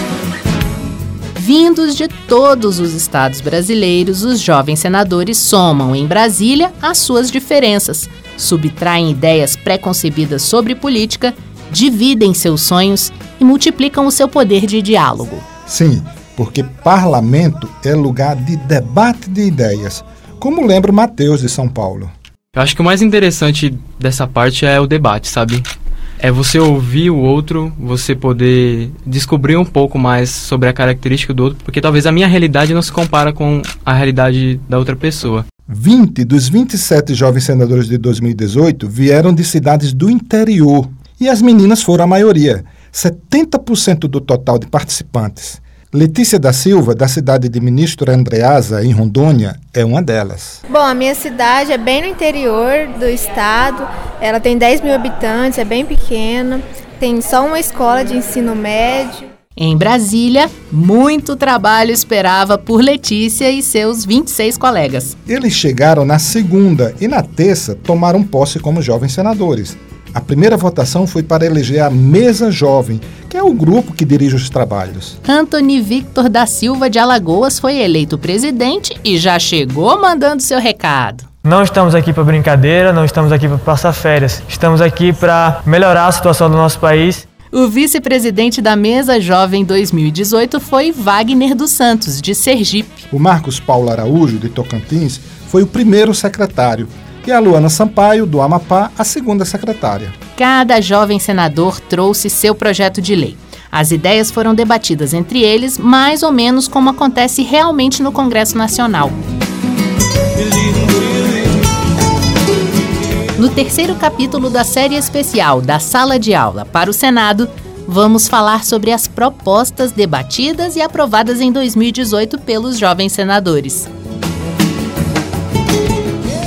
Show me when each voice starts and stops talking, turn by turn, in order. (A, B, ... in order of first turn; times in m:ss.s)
0:01.4-0:15.4 A
0:15.7-0:22.1 B
0:22.5-0:25.7 C
0:26.2-0:35.4 C
0:35.7-0:50.6 B
0:50.7-0:59.3 D
0:59.6-1:05.2 A
1:05.3-1:15.2 B
1:15.2-1:21.3 A
1:21.4-1:27.2 E
1:27.5-1:33.0 A
1:33.1-1:40.2 B
1:40.4-1:49.2 A
1:53.4-2:03.9 A